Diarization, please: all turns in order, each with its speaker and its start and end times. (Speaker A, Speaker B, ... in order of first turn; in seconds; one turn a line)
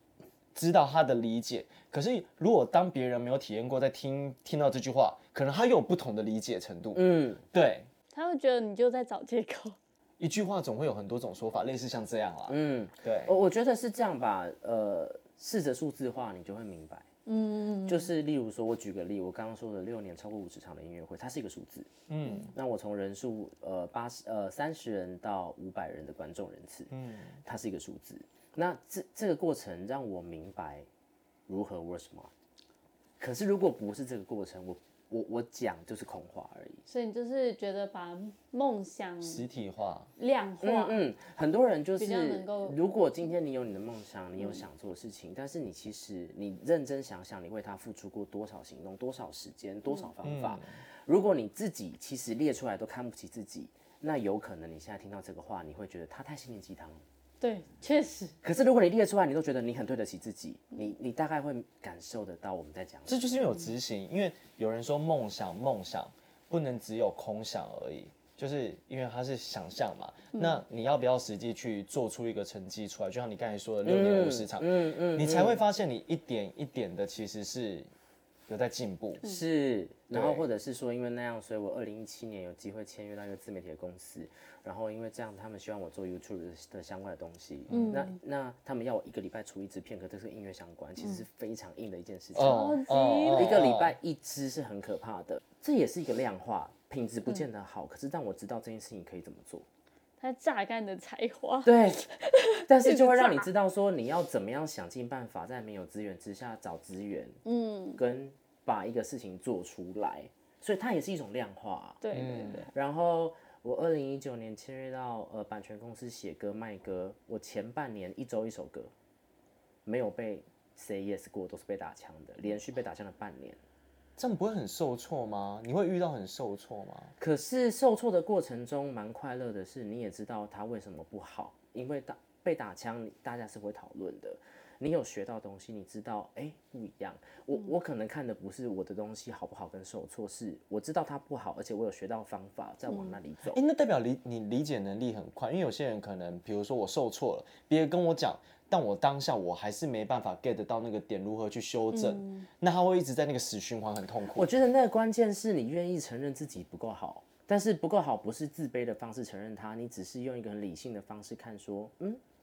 Speaker A: 0.6-7.9
Speaker B: 7.0-7.4
Speaker C: 8.1-9.8
Speaker A: 10.2-13.3
Speaker B: 12.5-17.1
Speaker C: 17.3-18.1
Speaker B: 17.9-21.9
Speaker A: 22.1-22.5
Speaker B: 22.5-26.9
Speaker A: 26.9-27.4
Speaker B: 27.4-30.9
Speaker B: 31.5-32.3
Speaker B: 33.2-36.8
Speaker C: 36.9-39.4
Speaker A: 39.2-40.1
Speaker C: 40.2-41.0
Speaker B: 40.6-57.0
Speaker C: 42.0-42.8
Speaker A: 50.2-50.6
Speaker C: 57.4-58.4
Speaker B: 58.4-63.3
Speaker A: 63.1-77.9
Speaker B: 73.8-75.6
Speaker A: 78.5-79.2
Speaker B: 79.2-92.8
Speaker A: 80.1-80.5
Speaker A: 87.7-88.0
Speaker C: 87.7-88.2
Speaker A: 92.3-94.0
Speaker C: 92.4-93.6
Speaker B: 93.3-99.7
Speaker C: 100.2-103.5
Speaker B: 101.7-102.0
Speaker B: 102.7-107.4
Speaker C: 107.5-108.0
Speaker B: 108.0-112.1
Speaker C: 112.0-112.7
Speaker A: 112.1-112.7
Speaker B: 112.7-118.9
Speaker B: 119.8-123.6
Speaker A: 124.2-127.1
Speaker B: 127.2-143.6
Speaker C: 142.9-143.2
Speaker A: 143.5-154.5
Speaker C: 151.9-152.5
Speaker B: 154.3-162.2